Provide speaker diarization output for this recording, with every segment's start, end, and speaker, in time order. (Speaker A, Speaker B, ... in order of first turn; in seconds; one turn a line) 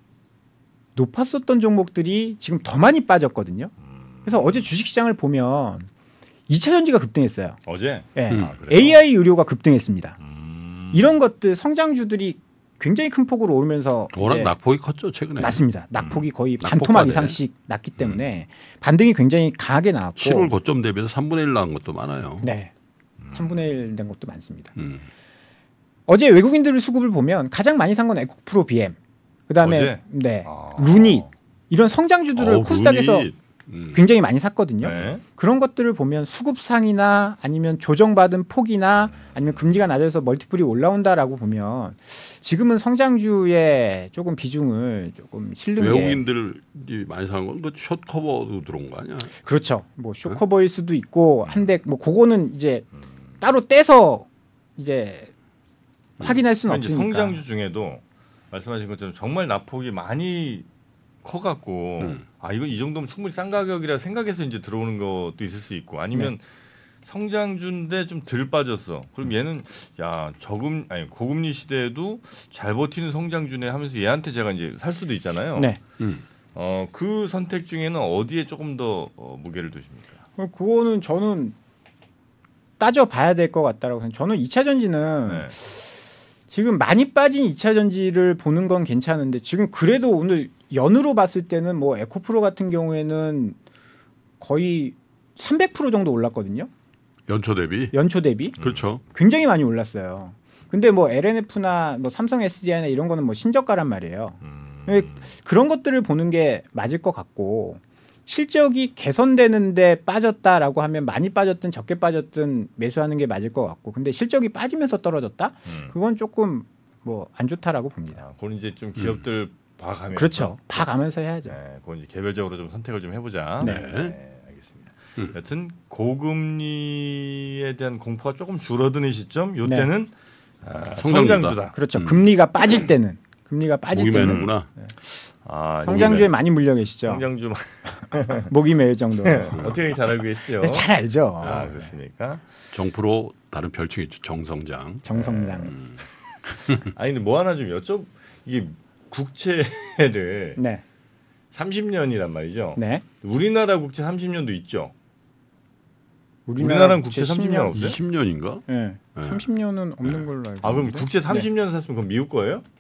Speaker A: 0.9-3.7
Speaker B: 3.8-4.7
Speaker A: 4.2-5.9
Speaker A: 6.5-7.6
Speaker B: 7.7-9.0
Speaker A: 8.1-10.2
Speaker C: 8.3-8.5
Speaker B: 10.2-11.2
Speaker A: 10.9-14.5
Speaker C: 14.1-15.6
Speaker A: 15.4-20.5
Speaker B: 16.0-16.2
Speaker C: 16.6-17.4
Speaker C: 20.2-22.5
Speaker A: 22.4-22.7
Speaker B: 23.2-23.6
Speaker A: 23.3-24.7
Speaker C: 24.8-25.0
Speaker A: 26.1-28.9
Speaker A: 29.5-33.3
Speaker B: 29.6-31.3
Speaker C: 32.4-34.0
Speaker A: 33.9-46.2
Speaker B: 34.8-35.2
Speaker C: 45.8-49.3
Speaker A: 49.4-52.8
Speaker A: 53.4-54.2
Speaker A: 54.8-55.3
Speaker A: 56.2-57.4
Speaker B: 56.7-60.6
Speaker B: 61.2-66.4
Speaker B: 67.0-75.7
Speaker B: 76.5-80.2
Speaker A: 80.4-81.5
Speaker A: 82.8-85.8
Speaker B: 85.3-85.5
Speaker A: 86.5-93.6
Speaker A: 94.4-96.7
Speaker C: 97.3-97.9
Speaker A: 97.9-118.2
Speaker C: 98.6-99.0
Speaker B: 104.4-105.3
Speaker B: 115.7-115.9
Speaker B: 118.2-120.9
Speaker A: 120.1-121.5
Speaker B: 121.5-130.1
Speaker C: 123.6-124.2
Speaker A: 129.6-129.9
Speaker B: 130.6-131.7
Speaker C: 130.9-132.3
Speaker A: 131.7-134.9
Speaker C: 133.9-134.7
Speaker B: 134.1-134.5
Speaker B: 135.0-136.4
Speaker A: 135.8-137.2
Speaker C: 135.9-136.2
Speaker B: 137.1-138.5
Speaker A: 138.3-139.7
Speaker B: 139.2-140.9
Speaker A: 140.6-141.7
Speaker B: 141.4-142.4
Speaker C: 142.7-145.1
Speaker A: 145.0-145.7
Speaker B: 145.1-146.0
Speaker B: 146.6-150.6
Speaker A: 150.6-150.8
Speaker B: 151.5-154.9
Speaker A: 152.8-153.0
Speaker A: 156.5-157.8
Speaker B: 156.6-158.0
Speaker C: 157.7-159.5
Speaker A: 158.7-161.5
Speaker B: 160.6-162.6